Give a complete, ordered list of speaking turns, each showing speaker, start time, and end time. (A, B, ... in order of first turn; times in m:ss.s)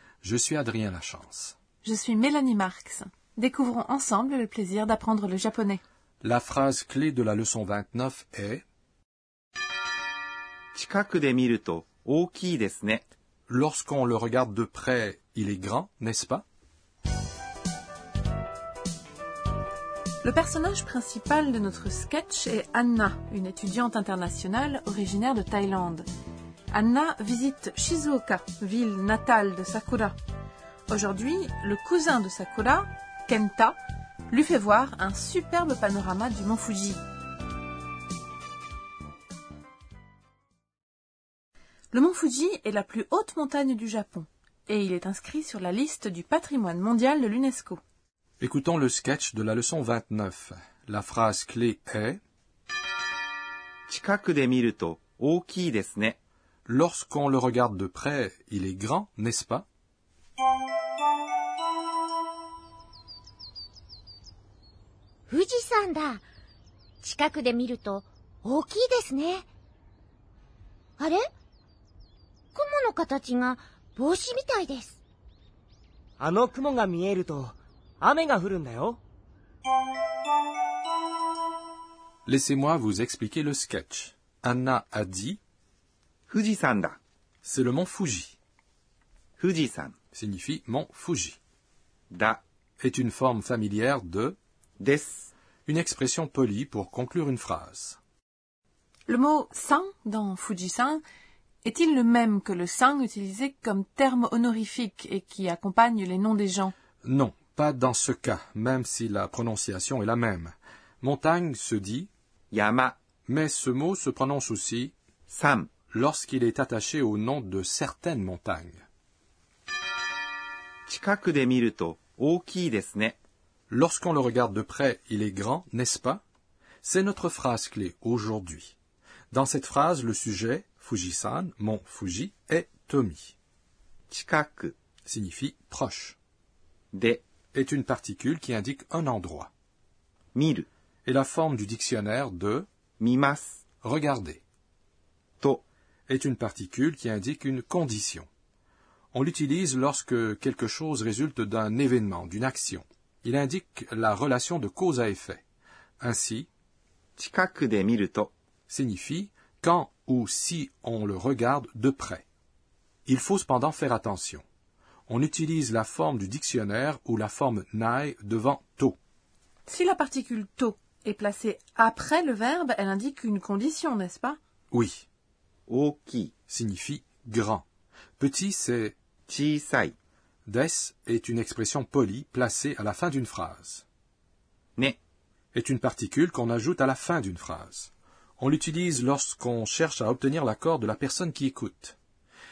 0:00.2-0:01.6 A
0:01.8-0:05.8 B
0:06.2-0:08.6 A
0:10.8-0:13.1 C
0:13.5-0:16.4 A
0:20.2-0:26.0 B
0:26.7-0:30.2 B
0:30.9-0:33.8 B
0:34.3-0:37.0 B
0:41.9-0:47.8 B
0:48.4-0:52.2 A
0:53.9-0:56.2 C
0:56.7-0:59.7 A
1:05.3-1:06.2 D
1:07.0-1:09.5 D
1:12.6-1:15.0 D
1:16.2-1:19.0 E
1:22.3-1:25.4 A
1:26.3-1:27.0 C
1:27.4-1:28.4 A
1:29.4-1:30.0 C
1:30.1-1:31.4 A
1:32.1-1:32.4 C
1:32.8-1:34.4 A
1:34.8-1:35.3 C
1:35.7-1:38.0 A
1:39.1-1:41.0 B
1:41.6-1:46.7 B
1:47.0-1:52.1 A
1:52.5-1:53.0 C
1:53.3-1:54.9 A
1:55.3-1:55.7 C
1:55.9-1:58.8 A
2:00.9-2:03.2 C
2:03.7-2:06.2 A
2:06.8-2:08.8 A
2:09.3-2:13.4 A
2:14.1-2:14.8 C
2:15.1-2:16.2 A
2:16.9-2:17.2 C
2:17.5-2:19.5 A
2:20.4-2:20.7 C
2:21.1-2:22.7 A
2:23.0-2:23.6 C
2:23.8-2:24.4 A
2:26.1-2:28.3 A
2:29.1-2:35.4 A
2:36.0-2:36.5 A
2:37.2-2:38.3 C
2:38.7-2:42.3 A
2:43.1-2:44.4 A
2:45.1-2:49.0 A
2:49.7-2:54.4 B
2:54.7-2:55.1 A
2:55.7-2:56.3 C
2:56.5-2:57.6 A
2:58.2-2:59.0 A
2:59.3-3:00.0 C
3:00.5-3:03.9 A
3:05.5-3:12.0 A